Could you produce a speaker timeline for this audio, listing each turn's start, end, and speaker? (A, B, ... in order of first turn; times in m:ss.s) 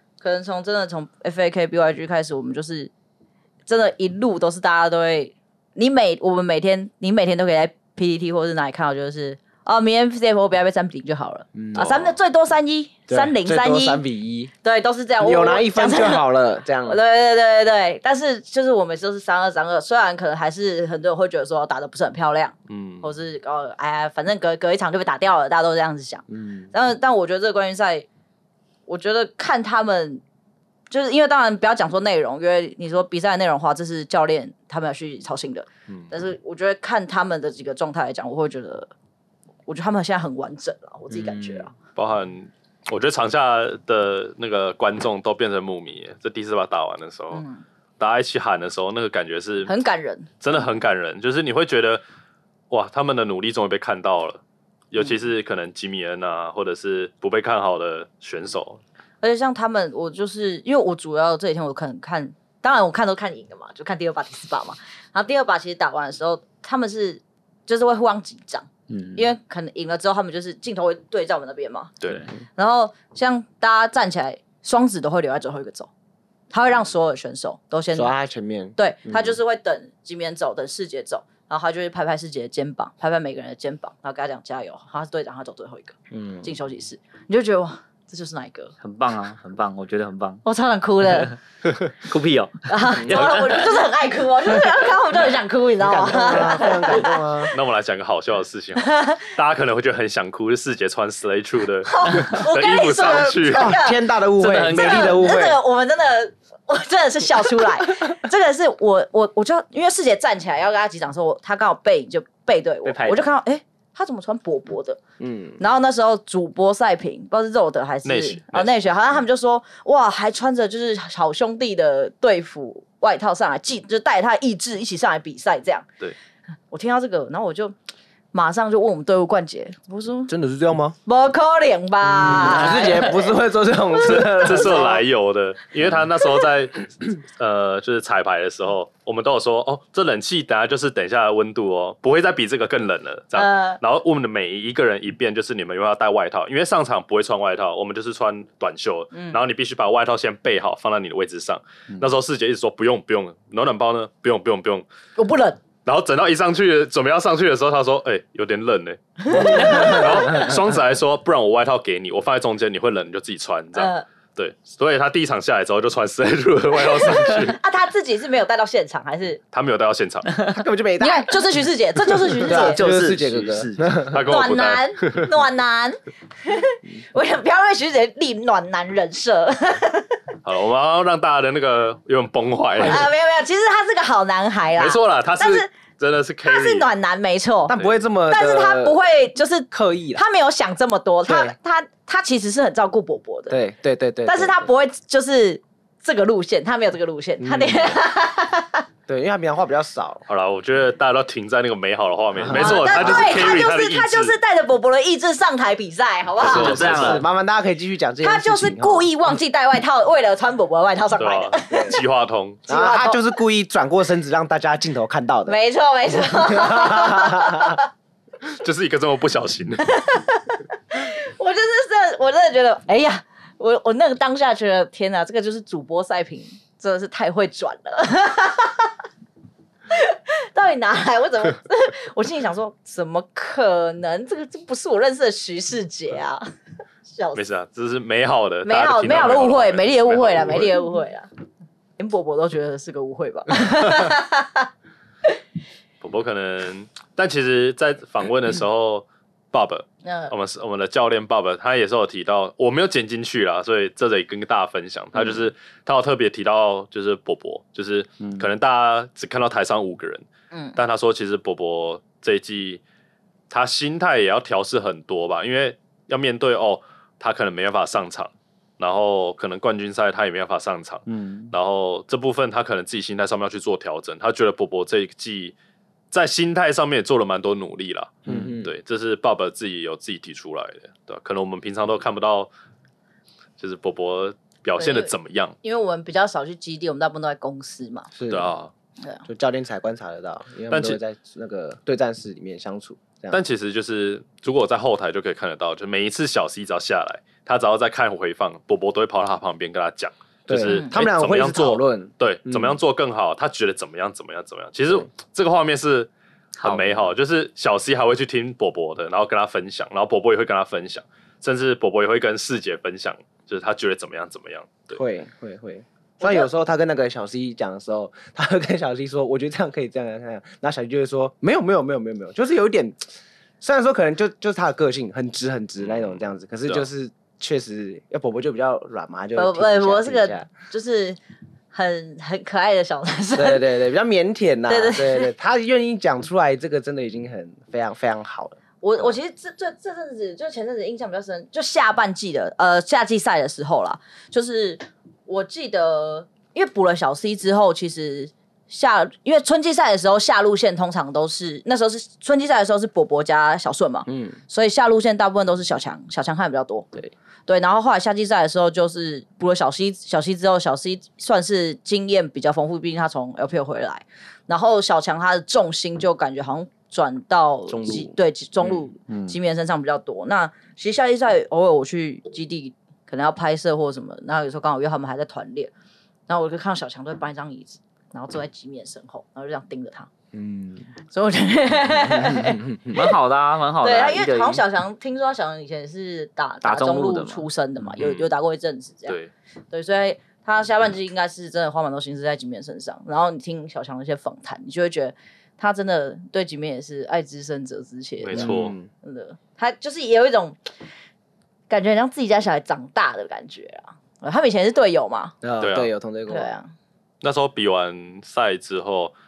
0:00.2-0:02.9 A
0:03.7-0:14.0 A
0:11.5-0:12.2 B
0:13.1-0:14.5 B
0:14.6-0:16.2 A
0:15.2-0:17.0 B
0:16.8-0:28.0 A
0:22.7-0:23.1 C
0:26.3-0:26.7 B
0:28.9-0:30.2 A
0:30.9-0:38.9 A
0:39.7-0:41.7 A
0:42.0-0:47.4 C
0:47.3-0:47.6 A
0:48.0-0:49.7 C
0:49.6-0:50.3 A
0:50.4-0:52.0 C
0:52.7-0:58.8 C
0:59.2-1:11.9 A
1:08.9-1:09.2 D
1:12.0-1:12.2 C
1:12.6-1:15.9 A
1:16.5-1:18.1 A
1:17.9-1:19.4 B
1:18.8-1:28.7 A
1:26.1-1:26.5 B
1:28.8-1:30.4 D
1:30.4-1:31.4 A
1:32.0-1:33.5 D
1:32.7-1:37.5 A
1:33.0-1:33.4 B
1:35.8-1:37.5 B
1:37.5-1:43.8 C
1:38.8-1:39.2 A
1:41.8-1:44.0 A
1:43.0-1:45.6 B
1:44.4-1:45.4 D
1:44.6-1:55.0 A
1:52.8-1:53.3 D
1:55.2-1:55.6 B
1:55.6-2:05.9 A
1:58.0-1:58.8 C
2:06.7-2:07.7 A
2:08.3-2:10.3 A
2:10.3-2:11.0 B
2:11.0-2:13.3 A
2:12.1-2:15.0 B
2:14.0-2:14.9 A
2:14.0-2:34.8 C
2:23.4-2:23.8 A
2:29.1-2:29.4 A
2:35.2-2:35.6 A
2:35.8-2:47.6 C
2:39.2-2:40.4 A
2:43.7-2:44.0 A
2:46.9-2:49.4 A
2:49.5-2:50.3 C
2:50.4-2:51.4 B
2:51.0-2:52.8 A
2:52.3-2:53.9 D
2:52.4-2:54.2 B
2:54.1-2:55.2 C
2:54.2-3:00.2 A
3:00.4-3:03.1 C
3:02.8-3:05.7 A
3:04.8-3:06.9 C
3:06.4-3:07.8 A
3:07.7-3:09.0 B
3:07.7-3:08.0 C
3:08.3-3:13.6 A
3:09.7-3:10.2 B
3:11.2-3:11.5 B
3:13.5-3:14.6 B
3:14.2-3:18.8 A
3:17.4-3:18.0 B
3:19.1-3:20.2 B
3:20.3-3:24.3 C
3:22.4-3:23.4 B
3:22.5-3:26.9 A
3:26.4-3:27.2 C
3:26.5-3:27.2 D
3:26.5-3:29.1 B
3:28.2-3:32.0 A
3:31.2-3:32.6 C
3:31.7-3:32.0 B
3:32.7-3:33.2 A
3:32.7-3:35.6 B
3:35.5-3:37.8 A
3:36.2-3:37.7 B
3:38.5-3:39.8 C
3:39.9-3:48.9 A
3:49.9-3:56.4 A
3:57.1-3:57.4 A
3:57.3-4:00.8 C
3:58.6-4:01.3 A
4:02.0-4:04.7 A
4:06.0-4:22.8 C
4:10.0-4:10.3 A
4:20.5-4:20.8 A
4:23.5-4:35.5 C
4:31.1-4:31.5 D
4:36.1-4:42.5 C
4:38.2-4:38.7 B
4:43.6-4:45.5 C
4:44.8-4:48.1 A
4:48.2-4:48.5 B
4:48.3-4:48.7 C
4:49.2-4:53.4 B
4:50.7-4:51.0 C
4:53.3-5:06.1 C
5:00.5-5:02.8 B
5:00.7-5:00.9 A
5:06.6-5:07.0 D
5:06.6-5:15.0 C
5:14.9-5:23.0 B
5:16.2-5:16.4 A
5:23.6-5:30.5 B
5:25.8-5:26.8 C
5:29.3-5:31.2 A
5:31.7-5:33.8 A
5:33.3-5:39.2 B
5:34.7-5:35.3 A
5:38.8-5:56.9 A
5:54.0-5:54.4 B
5:57.5-6:15.7 A
6:07.7-6:08.1 B
6:09.1-6:09.4 D
6:16.3-6:20.1 A
6:20.3-6:20.9 B
6:21.1-6:22.6 A
6:22.0-6:23.0 B
6:22.9-6:24.6 D
6:23.8-6:29.2 A
6:26.6-6:27.4 D
6:28.0-6:28.3 C
6:29.1-6:29.3 C
6:29.7-6:40.6 A
6:38.2-6:38.8 C
6:38.3-6:38.9 B
6:41.7-6:45.3 A
6:45.4-6:46.5 B
6:45.6-6:45.9 C
6:46.3-6:46.7 A
6:47.2-6:49.1 C